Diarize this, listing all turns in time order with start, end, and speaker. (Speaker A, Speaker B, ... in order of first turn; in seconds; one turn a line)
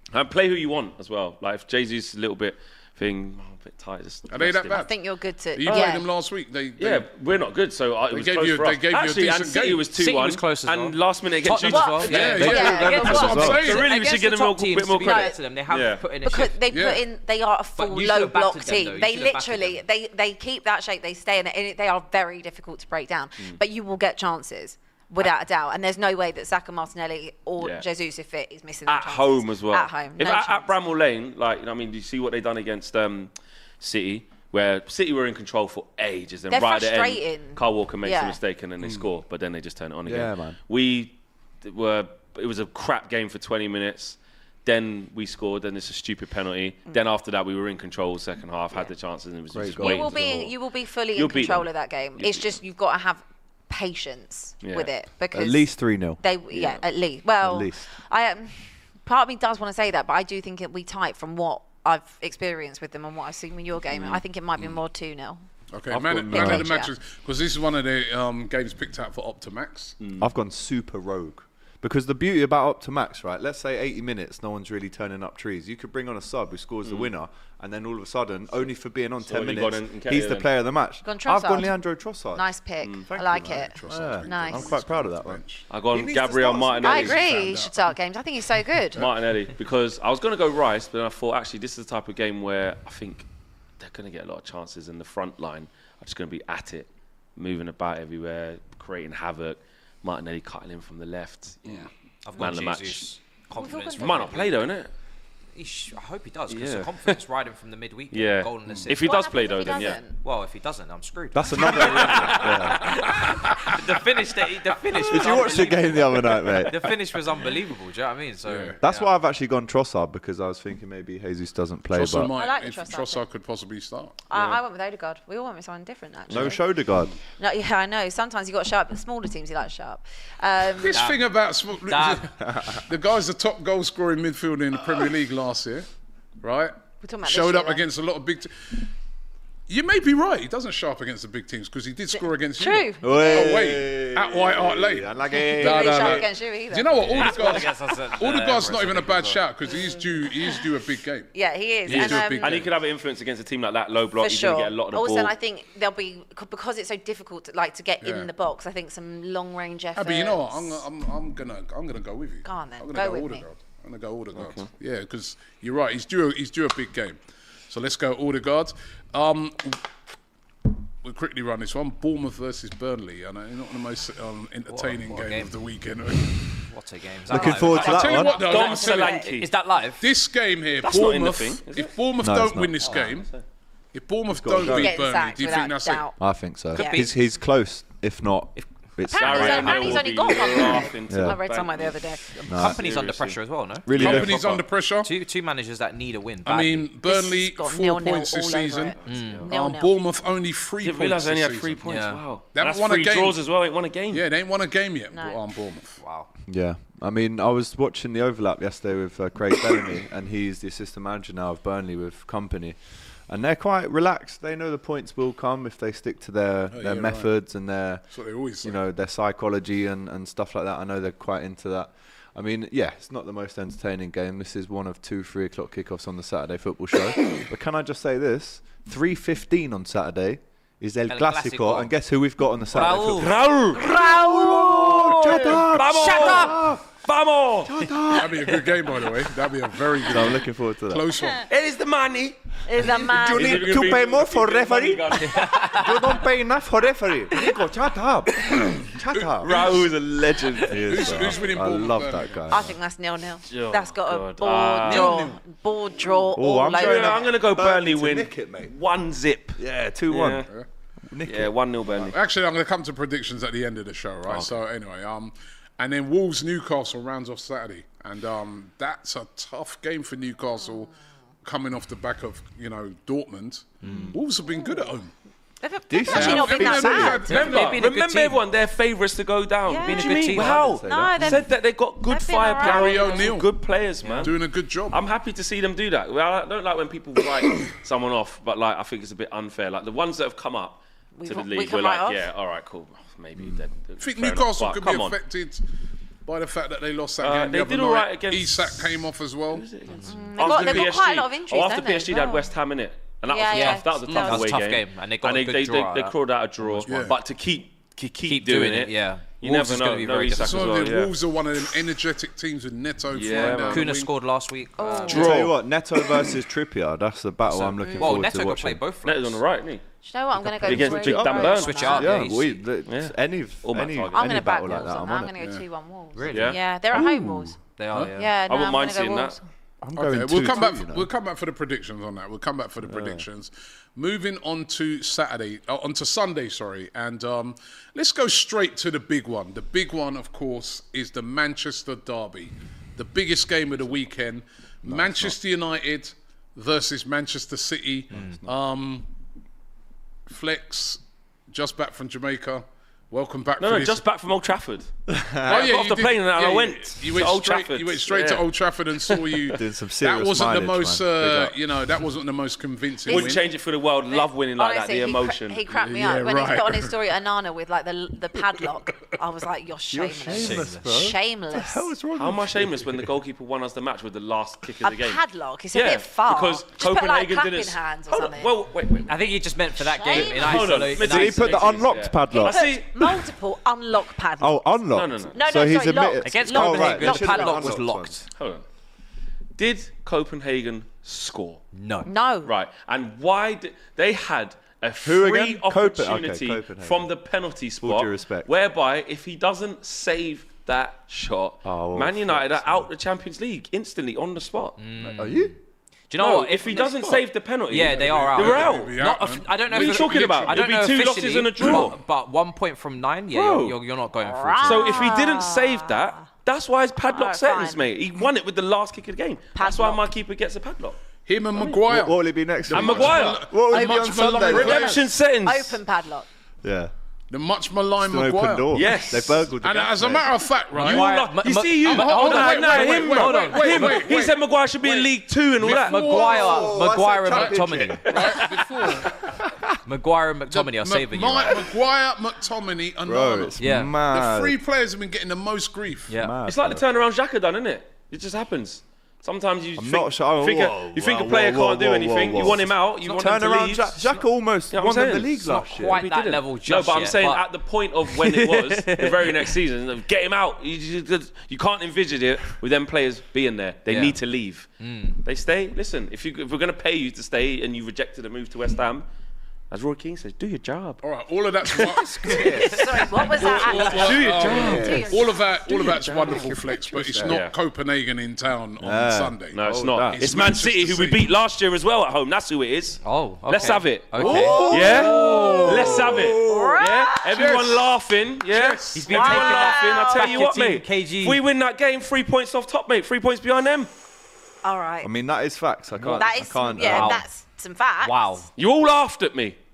Speaker A: 0.1-4.8
Speaker B: 4.3-5.0
Speaker C: 4.7-6.1
Speaker B: 5.5-7.1
Speaker A: 5.7-6.0
Speaker A: 6.8-12.6
Speaker B: 8.1-9.8
Speaker D: 9.9-16.6
Speaker C: 11.6-13.6
Speaker B: 12.1-13.9
Speaker E: 12.4-13.6
Speaker A: 13.4-16.0
Speaker C: 15.0-15.4
Speaker C: 16.2-30.7
Speaker B: 16.7-17.0
Speaker D: 17.8-19.8
Speaker A: 27.6-27.9
Speaker A: 28.9-50.5
Speaker C: 36.5-38.4
Speaker E: 40.0-40.6
Speaker E: 49.5-50.1
Speaker C: 49.8-55.7
Speaker A: 51.1-52.6
Speaker A: 54.6-54.9
Speaker E: 55.3-56.2
Speaker C: 56.2-65.4
Speaker A: 56.5-56.8
Speaker E: 57.4-57.9
Speaker A: 63.9-64.2
Speaker B: 65.7-70.0
Speaker E: 65.9-66.7
Speaker C: 66.3-66.9
Speaker A: 70.0-70.3
Speaker E: 70.2-82.5
Speaker A: 76.8-77.1
Speaker A: 79.3-80.5
Speaker C: 81.0-81.8
Speaker C: 82.3-84.8
Speaker A: 82.8-83.1
Speaker E: 83.1-87.3
Speaker B: 83.4-85.7
Speaker A: 85.7-87.2
Speaker C: 86.8-89.1
Speaker B: 87.0-87.9
Speaker A: 89.0-93.3
Speaker A: 93.8-103.1
Speaker D: 102.2-104.5
Speaker C: 103.6-104.5
Speaker A: 104.0-104.9
Speaker D: 105.5-109.0
Speaker A: 106.5-107.2
Speaker A: 108.1-110.0
Speaker C: 109.0-110.2
Speaker D: 110.2-119.1
Speaker E: 111.3-112.9
Speaker A: 111.9-112.6
Speaker B: 113.2-113.8
Speaker E: 115.0-116.9
Speaker B: 118.5-118.8
Speaker E: 118.8-122.3
Speaker B: 121.9-124.2
Speaker C: 122.2-123.2
Speaker C: 124.3-126.8
Speaker E: 126.3-127.1
Speaker C: 127.4-131.0
Speaker B: 130.8-135.9
Speaker D: 130.9-131.3
Speaker D: 131.8-132.2
Speaker B: 136.4-138.8
Speaker C: 137.0-137.8
Speaker B: 139.7-151.3
Speaker C: 142.2-143.7
Speaker E: 143.0-146.3
Speaker C: 145.3-147.5
Speaker D: 147.1-149.4
Speaker C: 151.3-152.6
Speaker B: 151.9-152.7
Speaker A: 151.9-155.3
Speaker C: 154.2-160.8
Speaker B: 158.0-158.3
Speaker B: 159.9-167.2
Speaker C: 162.4-163.4
Speaker A: 164.3-164.7
Speaker B: 167.7-169.8
Speaker B: 171.0-176.7
Speaker D: 174.7-175.6
Speaker D: 176.7-180.1
Speaker E: 177.3-178.4
Speaker C: 177.3-179.3
Speaker B: 177.7-179.2
Speaker A: 177.8-179.5
Speaker B: 180.0-183.3
Speaker A: 180.8-181.9
Speaker E: 182.2-182.9
Speaker D: 182.8-183.1
Speaker A: 183.0-183.4
Speaker B: 183.9-186.1
Speaker E: 184.3-185.0
Speaker C: 184.6-186.2
Speaker E: 186.2-190.1
Speaker C: 186.7-187.1
Speaker D: 186.8-187.1
Speaker C: 189.1-192.4
Speaker A: 189.2-193.4
Speaker E: 191.1-191.4
Speaker D: 192.4-194.3
Speaker E: 192.5-192.8
Speaker E: 193.9-194.6
Speaker B: 193.9-195.1
Speaker A: 194.0-194.3
Speaker D: 195.0-196.9
Speaker B: 196.4-201.8
Speaker C: 197.1-200.0
Speaker A: 199.0-199.5
Speaker D: 199.1-199.5
Speaker A: 200.8-204.3
Speaker D: 201.8-202.2
Speaker B: 202.6-203.4
Speaker B: 204.1-206.0
Speaker C: 205.1-205.4
Speaker D: 206.0-206.3
Speaker E: 206.5-218.1
Speaker B: 216.7-217.3
Speaker B: 218.1-218.8
Speaker E: 218.6-236.8
Speaker D: 231.1-231.9
Speaker D: 232.7-233.3
Speaker A: 233.2-237.8
Speaker D: 235.7-236.7
Speaker E: 237.6-238.6
Speaker B: 238.1-241.5
Speaker E: 240.1-241.1
Speaker A: 241.4-246.1
Speaker C: 242.7-243.8
Speaker E: 242.9-252.8
Speaker D: 245.2-245.8
Speaker A: 249.4-251.1
Speaker B: 250.8-252.6
Speaker C: 252.5-257.3
Speaker A: 253.5-255.2
Speaker B: 254.8-255.4
Speaker E: 256.3-258.7
Speaker A: 256.7-260.5
Speaker E: 259.6-260.5
Speaker E: 261.1-261.5
Speaker A: 261.3-262.2
Speaker B: 262.0-270.9
Speaker A: 264.3-264.6
Speaker B: 271.4-275.1
Speaker D: 273.8-274.2
Speaker C: 274.6-274.9
Speaker C: 275.6-277.5
Speaker E: 275.9-277.3
Speaker B: 276.1-277.8
Speaker D: 277.3-278.4
Speaker A: 277.5-295.2
Speaker C: 279.7-281.5
Speaker D: 279.8-280.6
Speaker E: 280.3-281.4
Speaker C: 282.0-283.3
Speaker B: 282.6-283.5
Speaker D: 284.0-284.3
Speaker B: 284.2-285.0
Speaker C: 291.2-292.2
Speaker B: 294.0-295.6
Speaker B: 296.2-299.7
Speaker A: 297.2-311.2
Speaker C: 300.1-302.4
Speaker B: 300.4-300.9
Speaker C: 303.3-304.4
Speaker D: 303.5-306.9
Speaker B: 306.9-307.2
Speaker D: 308.3-310.8
Speaker B: 310.4-314.1
Speaker A: 313.1-313.9
Speaker D: 313.4-315.4
Speaker C: 314.8-315.4
Speaker A: 315.1-315.6
Speaker E: 315.1-318.8
Speaker D: 317.5-319.4
Speaker C: 317.8-318.2
Speaker A: 319.0-319.8
Speaker C: 320.0-322.2
Speaker E: 320.4-325.3
Speaker A: 320.6-322.0
Speaker D: 321.4-322.6
Speaker A: 322.9-324.5
Speaker C: 324.1-327.6
Speaker D: 326.1-326.6
Speaker A: 326.3-326.6
Speaker E: 326.9-327.6
Speaker D: 327.8-328.3
Speaker C: 328.2-329.4
Speaker A: 328.5-329.4
Speaker E: 329.8-331.1
Speaker B: 329.9-349.1
Speaker E: 332.9-333.2
Speaker E: 344.9-345.4
Speaker E: 348.1-348.5
Speaker D: 348.1-348.4
Speaker B: 350.3-354.0
Speaker A: 353.6-354.9
Speaker E: 355.1-355.7
Speaker B: 355.4-363.4
Speaker A: 355.5-358.5
Speaker A: 359.0-359.6
Speaker E: 359.5-361.6
Speaker C: 363.1-363.5
Speaker A: 363.1-365.8
Speaker C: 364.1-371.9
Speaker B: 365.8-366.9
Speaker E: 369.9-373.1
Speaker D: 370.3-370.9
Speaker A: 372.2-379.1
Speaker C: 374.8-378.5
Speaker D: 379.1-381.7
Speaker C: 379.8-380.7
Speaker A: 380.1-383.0
Speaker E: 380.7-383.2
Speaker C: 382.3-384.8
Speaker E: 384.4-388.2
Speaker A: 384.9-385.4
Speaker C: 385.3-387.8
Speaker D: 386.2-388.3
Speaker A: 388.4-388.6
Speaker A: 389.6-391.6
Speaker D: 391.8-392.1
Speaker C: 392.1-392.5
Speaker A: 392.4-404.8
Speaker E: 395.0-397.1
Speaker E: 397.8-398.5
Speaker E: 401.6-402.8
Speaker D: 404.8-405.6
Speaker E: 405.0-405.5
Speaker D: 406.1-415.2
Speaker A: 406.2-409.0
Speaker B: 407.8-410.6
Speaker A: 409.7-412.0
Speaker A: 413.3-413.8
Speaker C: 414.2-416.2
Speaker A: 414.6-421.0
Speaker C: 417.1-417.8
Speaker C: 419.6-420.0
Speaker B: 421.3-425.0
Speaker E: 421.9-425.0
Speaker A: 422.7-423.5
Speaker C: 423.7-426.3
Speaker A: 424.5-425.8
Speaker E: 426.6-426.9
Speaker B: 427.3-431.1
Speaker E: 428.0-430.3
Speaker A: 428.7-429.5
Speaker D: 430.8-434.1
Speaker A: 430.8-436.2
Speaker B: 431.8-439.2
Speaker D: 435.7-438.2
Speaker E: 436.1-438.0
Speaker A: 438.1-438.6
Speaker D: 439.9-441.6
Speaker B: 440.5-446.1
Speaker E: 443.0-444.6
Speaker D: 443.6-443.9
Speaker D: 446.1-446.4
Speaker E: 446.1-446.8
Speaker A: 446.5-464.7
Speaker E: 449.8-456.0
Speaker D: 455.5-457.4
Speaker D: 458.1-459.5
Speaker D: 463.9-464.2
Speaker D: 464.8-465.2
Speaker A: 465.2-469.1
Speaker A: 469.7-471.0
Speaker B: 471.0-481.2
Speaker A: 471.7-472.0
Speaker D: 472.0-472.8
Speaker E: 472.2-472.6
Speaker C: 472.5-475.4
Speaker A: 473.4-475.1
Speaker E: 474.4-475.1
Speaker E: 476.2-477.4
Speaker A: 477.2-477.6
Speaker E: 478.8-480.2
Speaker A: 479.5-493.9
Speaker D: 483.0-484.6
Speaker E: 484.2-486.8
Speaker B: 484.2-486.3
Speaker C: 486.4-487.5
Speaker B: 487.3-487.9
Speaker B: 488.5-489.1
Speaker D: 488.9-491.4
Speaker C: 489.1-490.5
Speaker C: 494.6-495.1
Speaker E: 495.0-497.2
Speaker C: 496.1-498.5
Speaker D: 496.8-497.2
Speaker D: 498.0-498.5
Speaker A: 498.6-499.6